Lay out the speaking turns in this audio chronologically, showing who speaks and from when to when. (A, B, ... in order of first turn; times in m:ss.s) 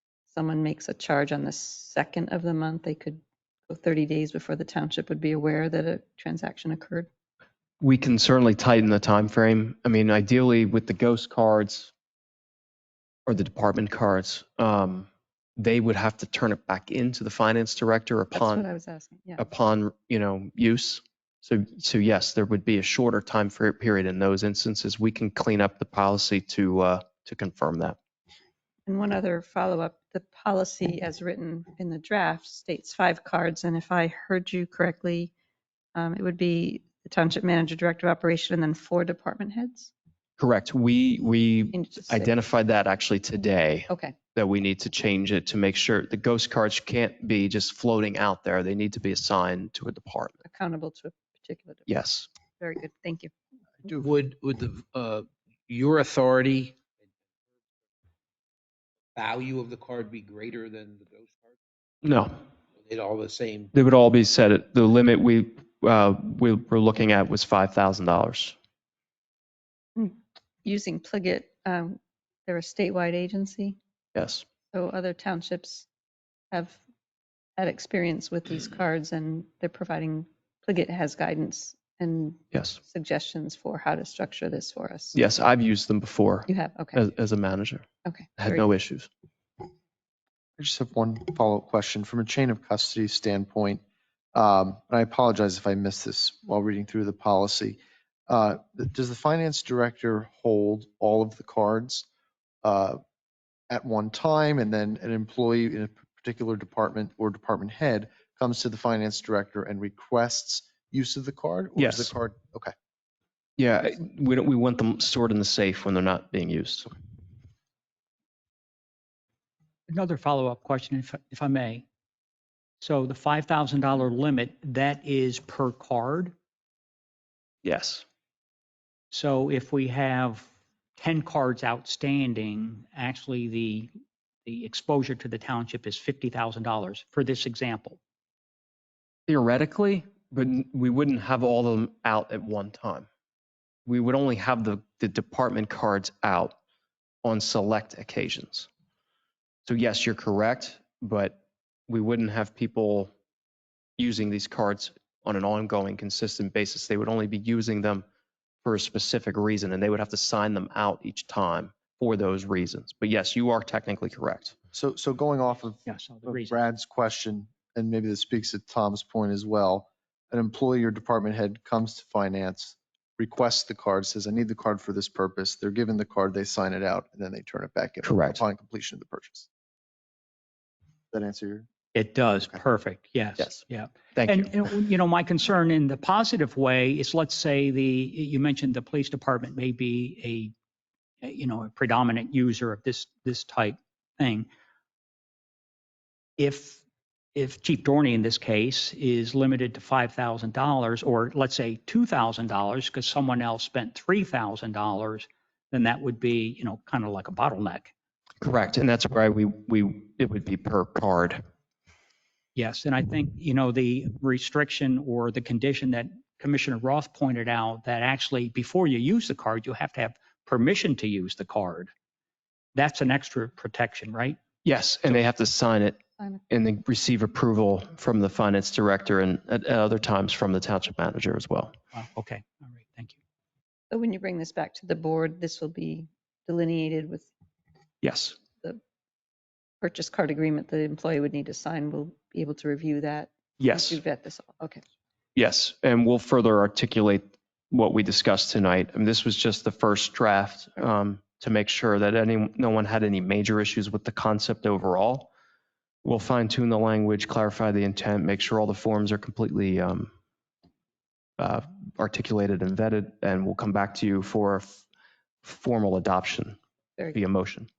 0:00.3-0:07.1 A
0:07.8-0:11.9 B
0:13.2-0:18.6 B
0:18.3-0:19.4 A
0:19.4-0:28.0 B
0:28.9-0:35.3 A
0:35.9-0:39.9 A
0:40.4-0:50.3 B
0:41.7-0:42.3 A
0:43.9-0:44.2 A
0:50.4-0:51.9 A
0:51.9-0:52.3 B
0:52.6-0:53.3 A
0:54.1-0:56.7 C
0:59.1-1:01.3 C
1:02.0-1:02.3 B
1:02.8-1:03.6 C
1:03.7-1:08.5 B
1:10.0-1:13.8 A
1:14.1-1:14.4 B
1:14.7-1:15.9 A
1:16.5-1:16.8 A
1:17.6-1:25.2 A
1:25.1-1:27.8 B
1:26.5-1:27.0 A
1:28.0-1:28.6 A
1:28.4-1:29.1 B
1:30.6-1:33.8 D
1:34.3-1:42.0 D
1:42.6-1:43.0 D
1:43.7-1:52.7 D
1:51.8-1:52.1 B
1:53.6-1:56.9 B
1:59.9-2:01.8 E
2:02.8-2:06.3 E
2:07.6-2:08.0 B
2:09.1-2:13.9 E
2:14.4-2:18.0 E
2:19.3-2:23.1 B
2:23.8-2:26.6 B
2:27.2-2:28.7 B
2:29.6-2:33.1 B
2:34.0-2:38.0 B
2:38.6-2:44.6 B
2:44.7-2:59.5 D
2:45.8-2:46.6 E
2:58.0-2:58.4 B
3:01.1-3:01.7 D
3:01.9-3:10.5 E
3:04.2-3:04.4 B
3:11.2-3:14.5 E
3:16.4-3:16.8 E
3:17.3-3:27.9 E
3:28.4-3:31.4 B
3:32.5-3:41.9 E
3:42.7-3:44.4 E
3:44.6-3:46.0 B
3:46.5-3:51.7 B
3:51.9-3:53.2 E
3:53.9-3:57.3 A
3:58.0-3:58.4 B
3:59.8-4:04.8 A
4:03.6-4:04.0 B
4:05.3-4:15.3 B
4:16.0-4:20.1 B
4:21.4-4:24.8 B
4:25.4-4:26.6 B
4:27.1-4:27.7 B